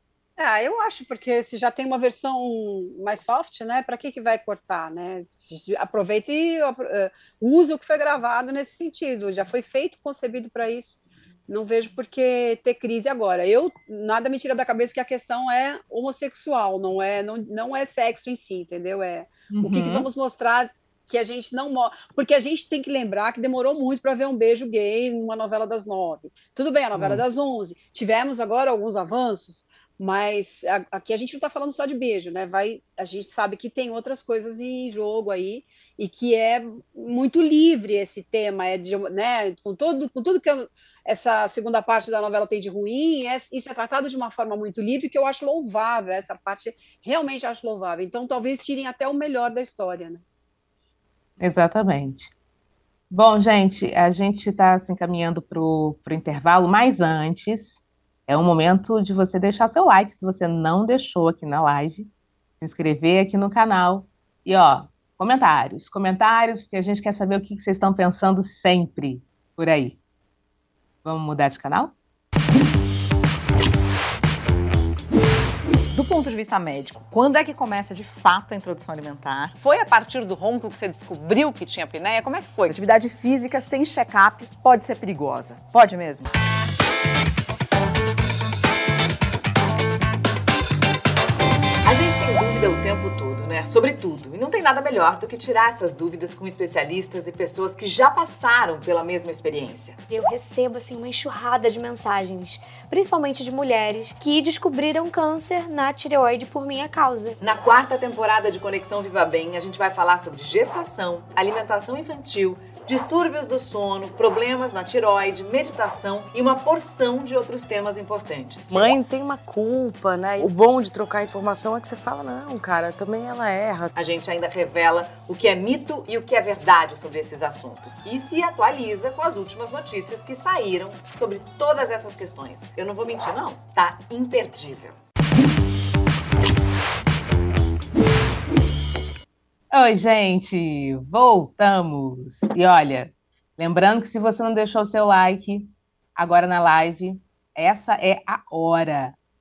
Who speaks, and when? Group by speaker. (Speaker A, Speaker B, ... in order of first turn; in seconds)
Speaker A: 0.4-50.2
Speaker B: 19.5-20.1, 26.9-27.2, 51.4-52.3, 53.1-62.1, 62.6-70.0, 71.0-71.9, 139.7-149.2
Speaker C: 75.9-86.3, 91.8-100.0, 107.4-119.0, 124.0-135.0
Speaker D: 100.1-107.4
Speaker E: 118.7-123.9